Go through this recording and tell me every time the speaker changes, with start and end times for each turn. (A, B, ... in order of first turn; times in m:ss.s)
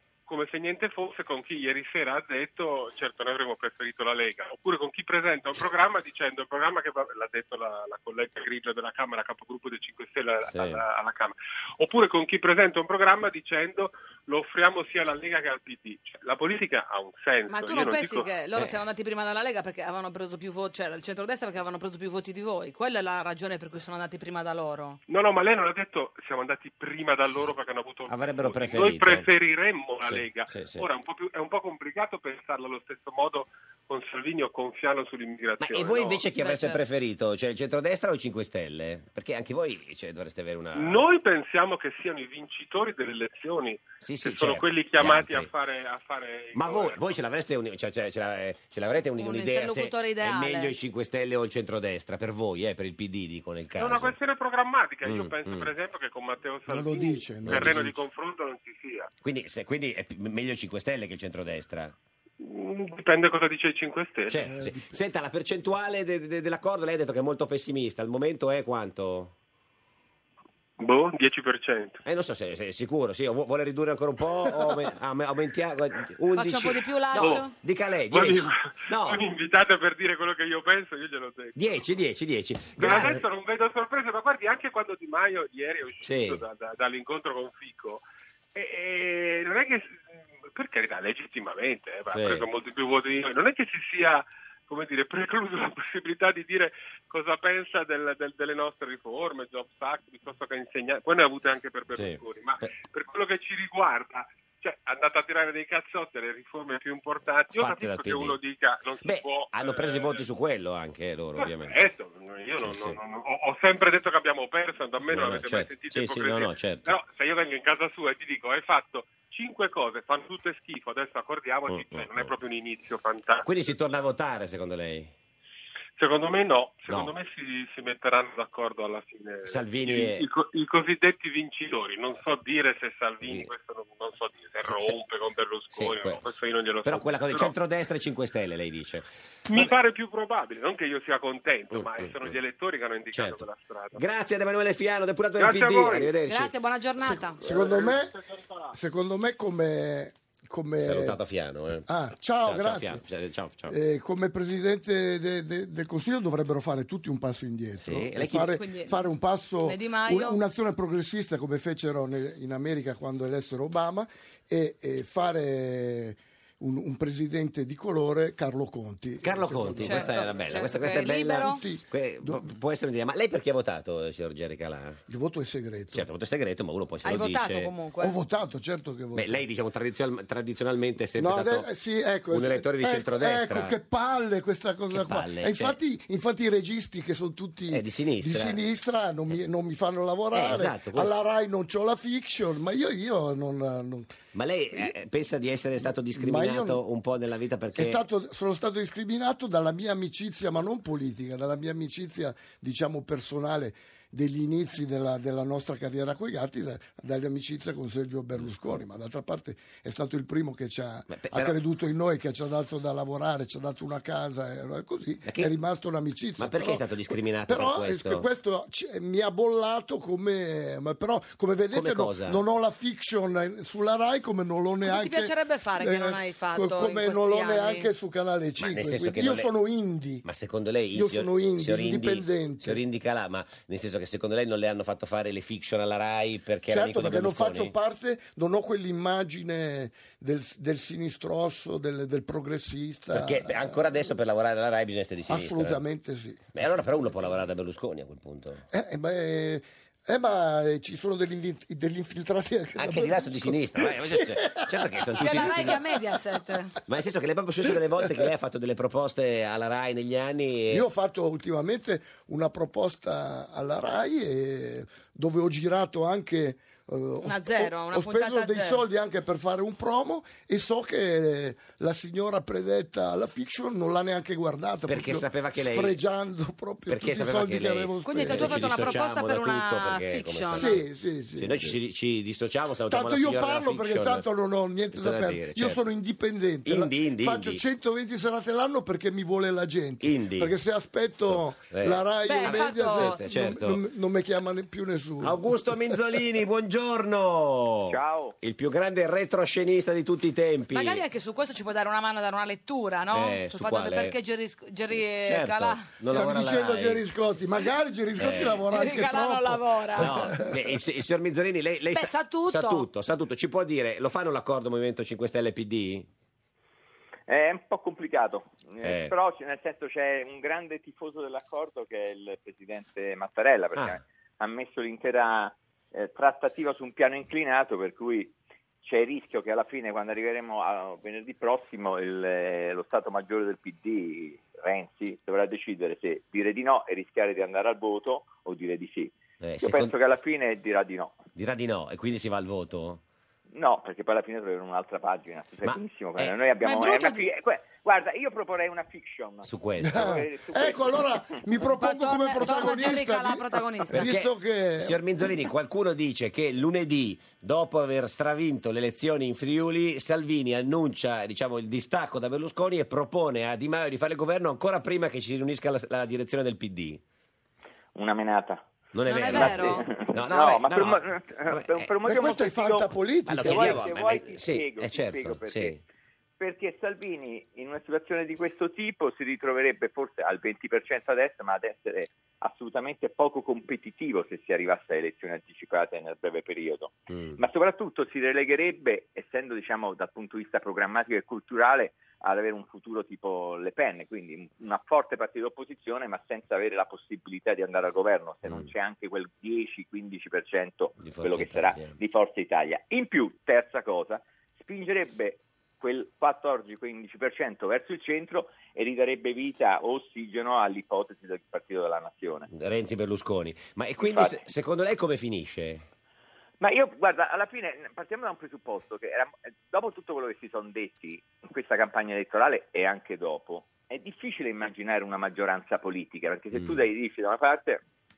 0:00.3-0:18.3 A
0:10.5-0:10.8 B
0:17.5-0:25.0 C
0:25.1-0:36.3 A
0:28.1-0:29.3 B
0:30.1-0:30.9 B
0:35.6-0:41.1 B
0:36.4-0:36.8 C
0:40.8-0:47.1 A
0:44.0-0:45.5 B
0:46.5-0:54.2 B
0:49.2-0:50.7 C
0:53.8-0:59.1 A
0:55.0-0:55.7 B
0:56.7-0:58.0 D
0:57.4-0:57.9 B
0:59.2-1:02.0 B
1:02.4-1:04.5 A
1:04.3-1:09.3 B
1:04.4-1:05.0 D
1:10.8-1:12.0 A
1:12.0-1:19.2 B
1:16.4-1:17.5 C
1:17.2-1:17.5 A
1:18.1-1:21.9 A
1:21.6-1:23.3 B
1:22.8-1:28.0 A
1:26.0-1:26.4 B
1:28.5-1:50.2 A
1:32.1-1:32.5 B
1:41.9-1:42.7 B
1:47.5-1:48.4 B
1:49.0-1:51.8 B
1:51.4-2:03.7 A
1:52.6-1:53.0 B
1:55.1-1:56.9 B
2:01.7-2:02.3 B
2:03.4-2:05.1 B
2:06.0-2:17.6 A
2:06.9-2:07.2 B
2:09.5-2:10.3 B
2:13.2-2:13.5 B
2:14.7-2:15.0 B
2:15.7-2:16.2 B
2:16.8-2:19.8 B
2:19.5-2:24.0 A
2:21.7-2:22.4 B
2:23.1-2:26.5 B
2:25.4-2:26.1 A
2:26.3-2:27.4 C
2:27.0-2:28.2 D
2:27.4-2:28.7 A
2:28.7-2:31.2 D
2:30.8-2:31.9 B
2:31.9-2:33.0 D
2:32.4-2:33.8 B
2:33.7-2:52.4 D
2:37.8-2:38.5 B
2:38.5-2:39.0 C
2:39.6-2:40.4 C
2:49.2-2:55.0 B
2:49.8-2:51.6 C
2:55.1-2:56.1 D
2:55.9-2:57.7 B
2:57.0-2:58.2 C
2:58.0-2:59.4 D
2:59.1-3:01.7 B
3:01.2-3:14.2 D
3:02.3-3:03.8 B
3:04.9-3:05.8 B
3:07.7-3:08.6 B
3:10.3-3:11.1 B
3:14.3-3:18.0 B
3:15.9-3:16.8 D
3:17.8-3:50.2 D
3:31.1-3:31.6 B
3:35.3-3:35.5 B
3:36.4-3:38.3 B
3:41.7-3:42.4 B
3:44.8-3:47.9 C
3:48.6-3:49.5 B
3:50.2-3:57.7 B
3:50.9-3:52.8 D
3:56.7-4:04.0 D
4:03.1-4:05.8 B
4:05.3-4:06.6 D
4:06.5-4:08.6 B
4:08.7-4:16.2 D
4:12.8-4:15.8 B
4:15.2-4:16.7 C
4:16.9-4:20.9 B
4:17.8-4:18.3 D
4:20.7-4:39.0 D
4:27.2-4:28.8 C
4:34.9-4:36.0 B
4:36.9-4:40.8 B
4:38.0-4:40.8 C
4:40.5-4:41.8 D
4:41.4-4:44.2 B
4:42.9-4:56.0 D
4:44.9-4:45.8 B
4:46.6-4:47.6 B
4:50.0-4:50.5 B
4:51.3-4:53.8 B
4:52.2-4:53.2 C
4:55.2-5:01.0 B
4:57.9-4:58.4 E
5:00.7-5:05.9 C
5:03.1-5:04.2 B
5:05.1-5:07.0 B
5:06.1-5:10.8 D
5:08.2-5:08.6 B
5:08.7-5:10.1 C
5:10.0-5:16.1 B
5:11.9-5:12.9 C
5:17.3-5:41.2 E
5:18.8-5:19.1 B
5:39.4-5:39.9 B
5:41.4-5:43.0 B
5:43.5-5:51.4 E
5:45.6-5:46.4 B
5:46.6-5:47.3 C
5:49.4-5:50.1 B
5:49.8-5:55.0 D
5:51.6-5:54.1 C
5:53.9-6:07.0 B
6:08.0-6:08.7 E
6:08.9-6:11.9 B
6:09.1-6:09.9 C
6:09.3-6:15.7 E
6:12.0-6:13.9 D
6:13.3-6:15.8 B
6:16.4-6:52.5 E
6:27.1-6:27.4 B
6:41.0-6:42.0 B
6:52.5-6:55.8 B
6:54.0-6:54.4 E
6:56.6-7:07.8 E
7:06.5-7:06.8 B